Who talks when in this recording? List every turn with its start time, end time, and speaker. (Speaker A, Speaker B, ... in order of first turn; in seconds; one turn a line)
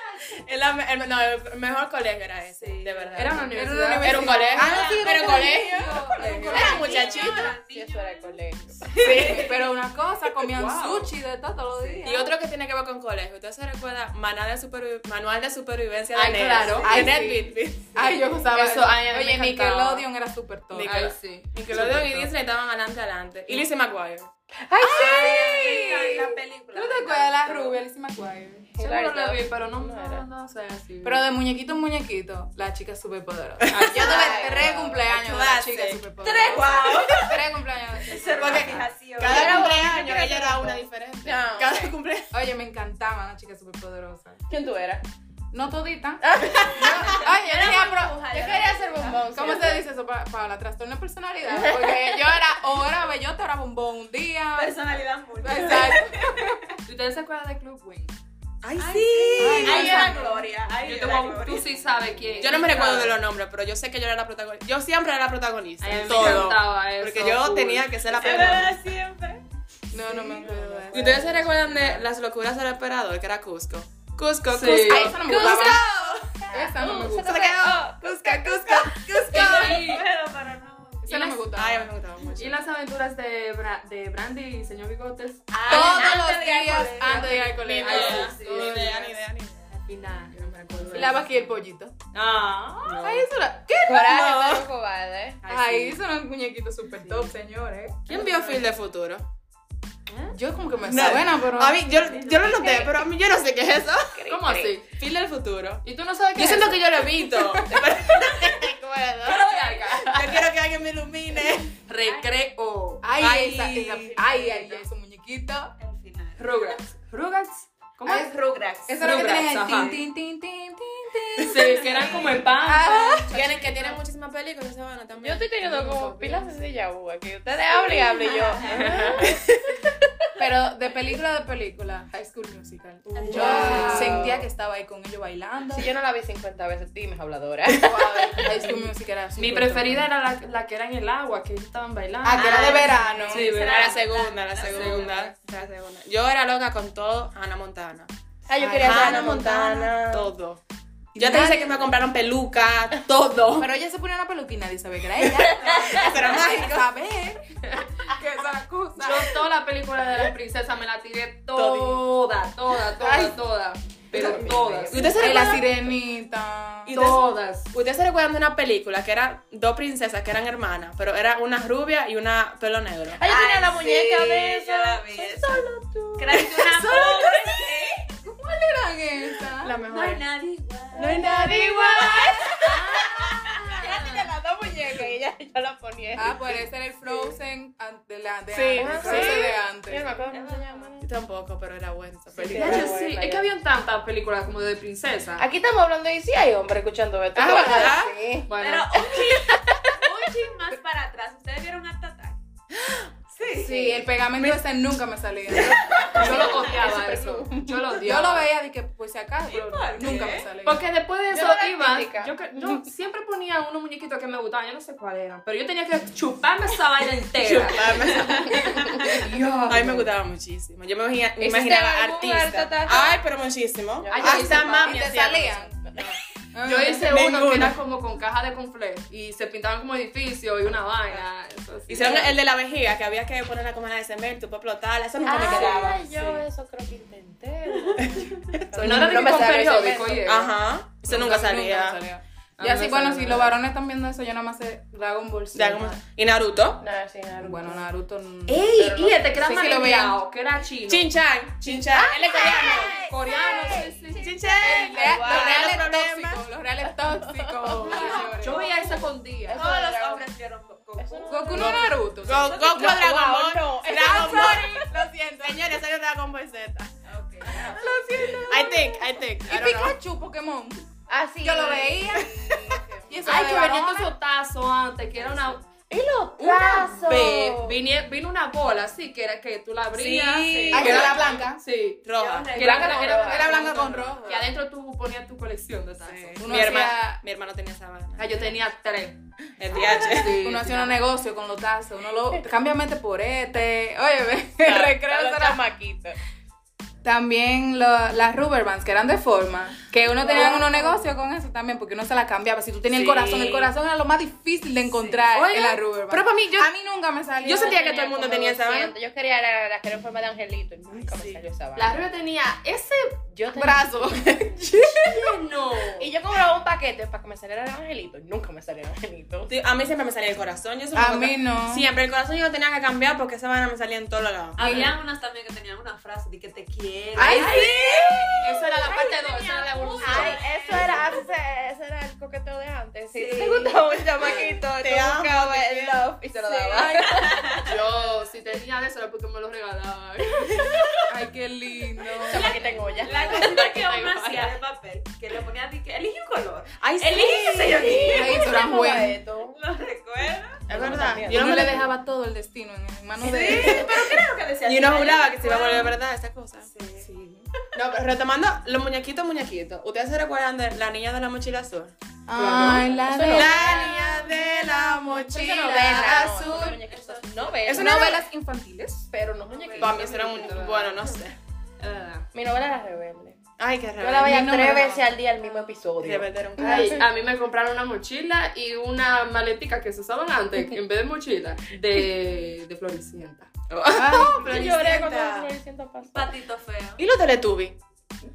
Speaker A: 0.3-7.5
Speaker B: 2.5-3.5
Speaker C: 3.1-4.6
Speaker D: 3.5-7.3
Speaker B: 4.5-5.6
Speaker E: 5.2-5.7
Speaker B: 6.1-9.5
Speaker C: 6.1-6.7
Speaker E: 6.5-9.4
Speaker D: 8.9-12.3
Speaker C: 10.5-11.1
Speaker A: 12.0-17.9
Speaker C: 16.1-17.1
Speaker D: 16.8-21.1
Speaker C: 18.5-20.1
Speaker A: 20.7-24.3
Speaker C: 20.8-21.5
Speaker D: 21.7-22.3
Speaker E: 24.7-26.1
Speaker D: 24.8-28.7
Speaker B: 24.9-27.8
Speaker E: 28.7-30.2
Speaker C: 28.8-31.2
Speaker D: 31.0-38.9
Speaker A: 33.7-37.1
Speaker E: 33.9-35.0
Speaker B: 36.2-37.4
Speaker B: 38.1-39.9
Speaker A: 38.3-42.3
Speaker E: 39.2-41.9
Speaker D: 42.3-44.4
Speaker E: 44.5-45.0
Speaker D: 45.5-48.3
Speaker E: 46.2-47.2
Speaker B: 46.8-49.3
Speaker E: 48.3-49.8
Speaker D: 49.2-54.8
Speaker E: 51.5-52.4
Speaker B: 54.5-56.6
Speaker D: 55.4-56.6
Speaker C: 56.8-58.1
Speaker A: 58.6-60.2
Speaker B: 58.8-62.8
Speaker D: 59.4-60.5
Speaker C: 59.7-60.0
Speaker C: 60.8-63.2
Speaker A: 62.4-68.8
Speaker C: 65.8-68.5
Speaker B: 66.2-66.4
Speaker B: 68.1-69.4
Speaker D: 69.9-71.9
Speaker C: 70.1-72.0
Speaker A: 70.9-75.8
Speaker C: 74.5-75.2
Speaker D: 74.7-75.8
Speaker E: 75.0-79.6
Speaker B: 75.4-75.9
Speaker D: 76.5-77.5
Speaker A: 77.2-79.8
Speaker C: 79.3-80.0
Speaker B: 79.3-81.3
Speaker D: 81.0-81.9
Speaker A: 81.4-82.7
Speaker C: 82.3-86.0
Speaker B: 85.5-89.0
Speaker D: 85.7-89.0
Speaker E: 85.7-86.3
Speaker C: 87.0-89.1
Speaker A: 87.5-89.6
Speaker C: 89.7-91.2
Speaker B: 90.8-91.1
Speaker D: 90.9-91.9
Speaker C: 92.1-93.0
Speaker A: 92.8-93.3
Speaker D: 93.0-94.3
Speaker E: 93.8-95.4
Speaker A: 93.9-94.7
Speaker C: 95.4-96.0
Speaker D: 95.4-98.5
Speaker A: 98.1-99.2
Speaker C: 100.1-100.3
Speaker D: 100.3-101.8
Speaker A: 100.8-104.2
Speaker E: 102.2-103.0
Speaker E: 104.1-104.7
Speaker C: 104.3-104.9
Speaker A: 104.9-105.8
Speaker C: 105.8-107.2
Speaker A: 106.3-111.7
Speaker E: 107.7-108.6
Speaker C: 109.2-110.5
Speaker C: 111.8-113.0
Speaker B: 112.0-112.3
Speaker D: 113.0-115.7
Speaker A: 113.2-114.2
Speaker C: 114.3-114.8
Speaker B: 115.8-116.8
Speaker C: 116.4-120.0
Speaker B: 118.0-119.5
Speaker D: 118.9-123.3
Speaker C: 121.4-124.0
Speaker A: 123.3-125.7
Speaker E: 125.2-129.4
Speaker C: 125.7-126.4
Speaker B: 128.1-129.2
Speaker C: 128.7-129.2
Speaker D: 130.4-135.9
Speaker B: 133.1-134.2
Speaker C: 133.2-134.3
Speaker E: 133.3-134.4
Speaker E: 135.7-138.5
Speaker D: 137.7-140.1
Speaker C: 139.3-144.0
Speaker D: 142.2-143.7
Speaker B: 142.4-145.2
Speaker A: 143.5-148.1
Speaker C: 144.6-145.3
Speaker E: 148.5-150.3
Speaker D: 148.6-149.3
Speaker A: 148.8-150.6
Speaker D: 151.1-151.9
Speaker A: 151.2-153.7
Speaker D: 153.6-159.4
Speaker A: 155.6-156.9
Speaker C: 159.0-165.6
Speaker A: 161.5-162.0
Speaker E: 163.0-163.3
Speaker A: 164.1-166.0
Speaker E: 164.1-165.0
Speaker D: 165.2-167.0
Speaker A: 166.8-173.2
Speaker C: 166.9-167.7
Speaker E: 173.1-176.7
Speaker B: 173.2-178.1
Speaker D: 176.6-177.5
Speaker D: 178.2-179.8
Speaker A: 179.6-180.2
Speaker B: 179.9-184.2
Speaker A: 180.9-182.5
Speaker E: 180.9-187.1
Speaker D: 186.1-190.2
Speaker A: 188.5-189.6
Speaker E: 188.8-191.1
Speaker B: 190.2-190.9
Speaker A: 191.0-192.9
Speaker E: 192.3-193.5
Speaker C: 192.5-195.5
Speaker E: 195.4-198.5
Speaker A: 197.3-198.1
Speaker C: 198.5-199.3
Speaker B: 198.6-202.4
Speaker E: 199.1-200.0
Speaker B: 203.3-203.8
Speaker D: 203.5-206.4
Speaker E: 203.6-204.0
Speaker B: 205.6-206.6
Speaker E: 206.1-208.0
Speaker C: 206.1-208.5
Speaker D: 208.0-210.8
Speaker B: 209.5-210.5
Speaker C: 210.6-218.5
Speaker E: 211.3-212.8
Speaker A: 217.4-218.7
Speaker B: 217.8-219.1
Speaker D: 219.2-220.0
Speaker A: 219.6-226.2
Speaker E: 221.4-223.2
Speaker E: 224.0-225.1
Speaker D: 224.1-225.8
Speaker C: 224.2-224.9
Speaker E: 225.7-226.2
Speaker D: 226.5-227.1
Speaker C: 226.6-232.4
Speaker A: 226.7-227.8
Speaker A: 231.9-236.4
Speaker E: 235.2-240.3
Speaker A: 238.0-239.3
Speaker C: 238.7-240.5
Speaker A: 240.2-242.0
Speaker D: 241.1-246.0
Speaker C: 242.6-243.5
Speaker A: 245.5-246.8
Speaker E: 246.8-247.9
Speaker D: 247.4-248.8
Speaker C: 248.5-251.1
Speaker E: 248.7-249.3
Speaker D: 249.3-250.2
Speaker A: 250.9-253.0
Speaker E: 251.6-255.9
Speaker C: 252.9-254.5
Speaker A: 254.1-256.4
Speaker D: 254.6-258.8
Speaker E: 257.1-260.3
Speaker C: 257.8-259.6
Speaker B: 257.9-258.3
Speaker B: 259.5-263.0
Speaker E: 261.0-262.0
Speaker D: 261.3-262.6
Speaker A: 261.6-266.9
Speaker E: 262.6-264.8
Speaker D: 263.9-265.7
Speaker B: 267.1-267.8
Speaker D: 267.5-270.9
Speaker A: 268.5-269.9
Speaker E: 271.1-273.1
Speaker D: 271.4-274.1
Speaker C: 273.2-275.6
Speaker E: 275.9-277.8
Speaker C: 276.4-286.8
Speaker A: 280.0-281.4
Speaker E: 280.5-281.4
Speaker D: 280.7-281.6
Speaker A: 282.0-284.5
Speaker B: 282.1-284.0
Speaker E: 282.6-283.6
Speaker D: 282.6-284.4
Speaker A: 286.0-288.5
Speaker D: 286.4-287.2
Speaker C: 288.2-290.9
Speaker A: 289.6-290.4
Speaker D: 290.2-295.6
Speaker E: 294.6-296.2
Speaker D: 297.0-308.2
Speaker C: 300.2-301.0
Speaker E: 300.3-300.6
Speaker A: 302.9-303.7
Speaker C: 305.4-305.8
Speaker A: 306.1-306.7
Speaker A: 307.4-308.9
Speaker E: 307.5-312.0
Speaker A: 310.9-311.4
Speaker C: 311.7-313.8
Speaker E: 313.4-314.4
Speaker D: 313.5-315.3
Speaker C: 315.0-316.1
Speaker E: 315.9-319.5
Speaker A: 319.5-324.6
Speaker D: 320.9-321.9
Speaker B: 324.6-328.4
Speaker D: 324.6-324.9
Speaker D: 327.1-328.3
Speaker E: 327.3-329.2
Speaker C: 327.3-327.6
Speaker C: 328.4-330.9
Speaker B: 329.1-331.1
Speaker E: 330.0-337.6
Speaker B: 333.1-334.5
Speaker A: 334.2-336.1
Speaker B: 336.5-337.7
Speaker C: 337.6-340.8
Speaker E: 340.6-341.0
Speaker D: 341.1-342.6
Speaker E: 342.2-343.7
Speaker B: 342.3-348.6
Speaker C: 343.0-344.5
Speaker A: 346.8-348.2
Speaker E: 347.5-349.6
Speaker D: 348.1-349.2
Speaker B: 349.5-351.0
Speaker E: 350.7-351.8
Speaker A: 350.7-351.9
Speaker D: 351.2-353.9
Speaker B: 353.2-356.0
Speaker A: 353.5-353.9
Speaker A: 354.6-356.7
Speaker B: 356.6-357.1
Speaker A: 357.7-361.9
Speaker D: 362.3-366.8
Speaker E: 362.4-364.0
Speaker A: 362.6-366.5
Speaker E: 365.3-368.2
Speaker B: 366.3-367.8
Speaker A: 367.6-368.2
Speaker D: 367.7-369.1
Speaker E: 369.1-370.2
Speaker B: 369.5-370.0
Speaker C: 369.6-371.1
Speaker A: 369.8-371.4
Speaker C: 371.8-372.3
Speaker E: 372.3-373.4
Speaker A: 373.6-374.6
Speaker E: 374.0-377.1
Speaker D: 374.2-375.2
Speaker A: 376.0-377.0
Speaker C: 376.6-383.5
Speaker E: 383.7-386.3
Speaker D: 383.9-384.5
Speaker A: 384.1-385.5
Speaker B: 386.1-387.0
Speaker A: 387.0-387.8